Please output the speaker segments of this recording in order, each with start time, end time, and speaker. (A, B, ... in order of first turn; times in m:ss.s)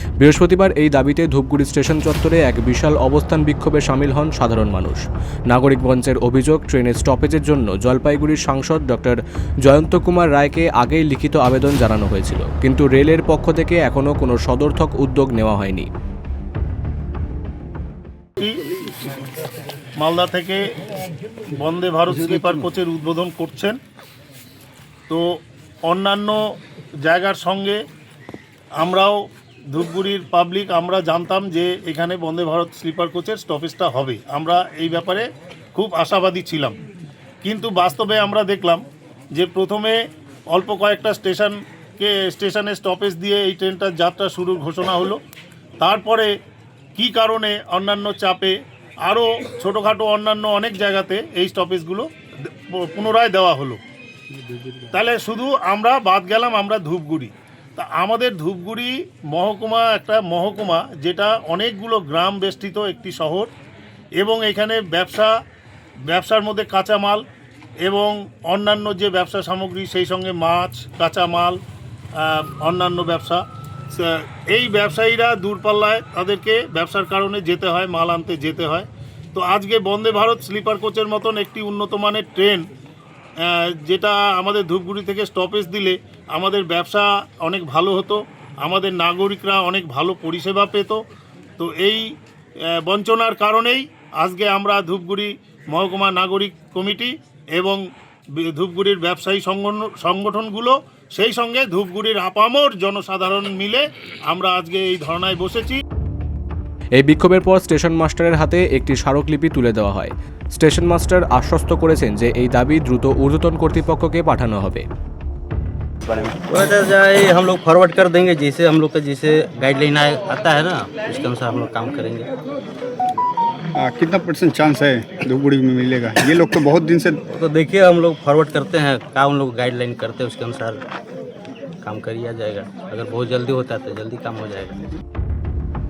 0:00.2-0:15.9 A
0:18.4-0:18.6 B
0:20.0-0:20.6 B
0:21.5-0:23.8 B
0:25.9-0:27.8 B
0:28.8-0:36.8 B
0:37.4-0:38.8 B
0:39.3-0:45.2 B
0:45.8-0:46.3 B
0:47.0-0:53.8 B
0:54.5-0:54.8 C
0:54.8-1:03.5 B
1:04.2-1:05.3 B
1:06.1-1:07.2 B
1:07.8-1:11.6 B
1:12.2-1:22.6 B
1:23.4-1:31.0 B
1:31.6-1:32.0 B
1:32.7-1:37.8 B
1:38.4-1:45.8 B
1:46.9-1:54.8 A
1:56.1-2:02.3 C
2:03.8-2:07.2 D
2:07.3-2:10.8 C
2:11.8-2:14.8 C